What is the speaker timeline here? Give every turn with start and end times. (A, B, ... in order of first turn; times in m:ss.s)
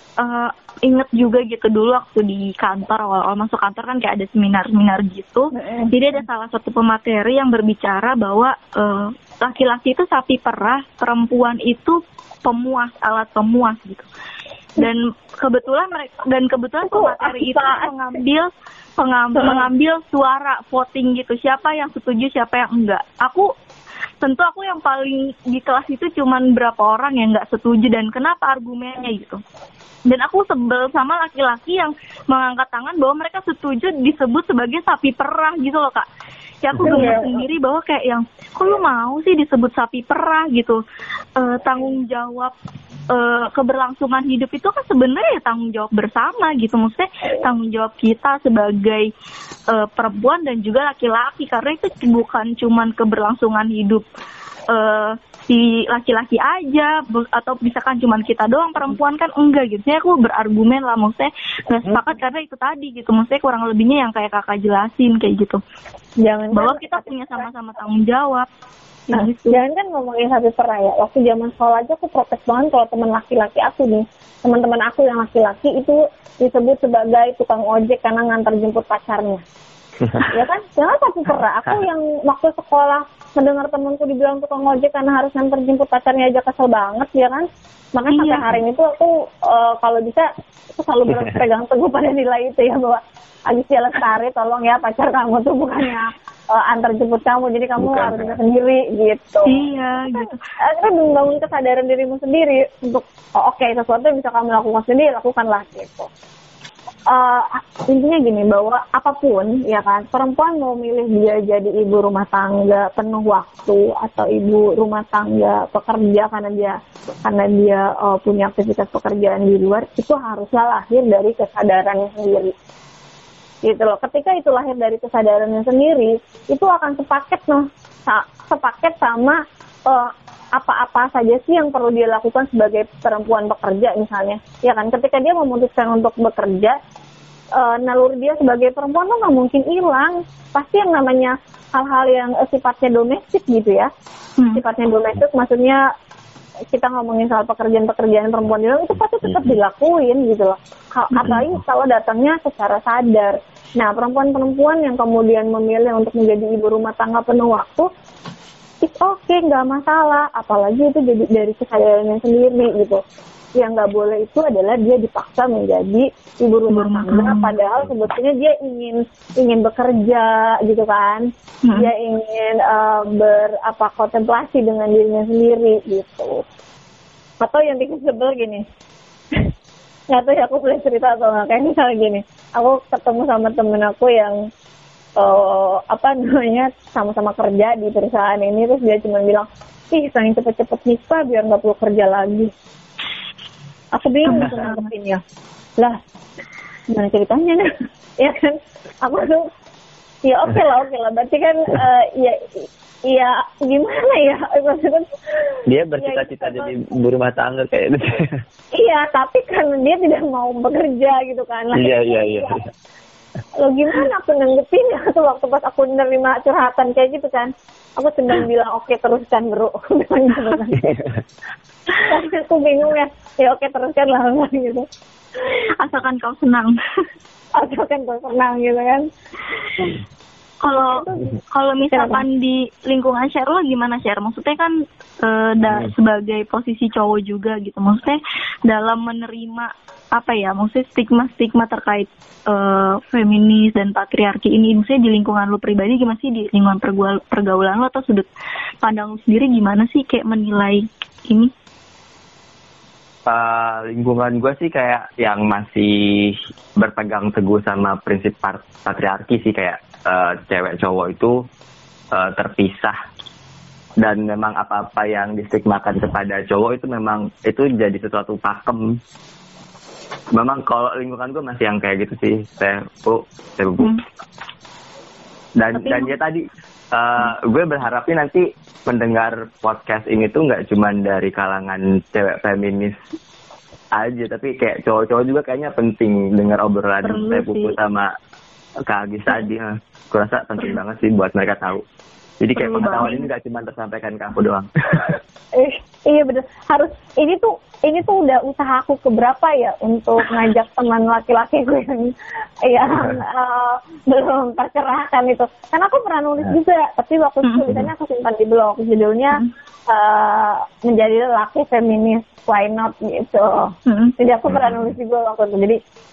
0:00.2-0:14.1 A
0:05.5-0:05.9 B
0:14.8-0:23.5 A
0:16.9-0:18.2 B
0:19.4-0:19.6 B
0:24.2-0:29.4 A
0:30.1-0:36.1 A
0:36.6-0:40.8 A
0:36.8-0:37.3 B
0:41.4-0:42.5 A
0:43.1-0:49.1 A
0:49.7-0:54.0 A
0:54.7-1:05.6 A
1:06.2-1:07.5 B
1:06.5-1:08.5 A
1:09.1-1:09.6 A
1:09.1-1:19.4 B
1:20.2-1:39.6 B
1:28.1-1:28.5 A
1:37.8-1:38.4 C
1:39.4-1:40.4 A
1:40.2-1:46.1 B
1:47.1-2:02.5 B
2:03.6-2:16.8 B
2:17.6-2:23.9 B
2:24.6-2:25.9 B
2:26.7-2:37.9 B
2:31.2-2:31.5 C
2:38.8-2:43.0 B
2:43.6-2:56.4 B
2:46.7-2:47.6 A
2:57.4-2:58.6 B
3:00.1-3:04.4 B
3:05.2-3:12.5 B
3:14.0-3:15.2 B
3:14.3-3:14.9 A
3:16.9-3:19.5 B
3:20.2-3:26.7 B
3:25.7-3:28.4 C
3:28.8-3:32.6 B
3:31.7-3:32.7 C
3:33.6-3:40.9 B
3:40.8-3:41.2 C
3:42.0-3:44.9 B
3:45.8-3:46.8 A
3:47.6-3:49.1 B
3:50.6-4:08.3 A
3:50.9-3:51.4 B
3:51.9-3:52.2 B
4:08.8-4:11.5 A
4:13.3-4:21.4 C
4:22.1-4:23.0 C
4:24.0-4:29.0 C
4:30.3-4:34.0 C
4:35.6-4:43.0 C
4:35.7-4:36.1 A
4:44.0-4:48.1 C
4:47.0-4:47.8 A
4:48.9-4:51.8 C
4:52.4-4:55.2 C
4:52.6-4:53.2 A
4:55.6-5:02.1 B
5:02.6-5:15.8 B
5:07.4-5:07.7 A
5:13.9-5:14.1 A
5:14.5-5:15.0 C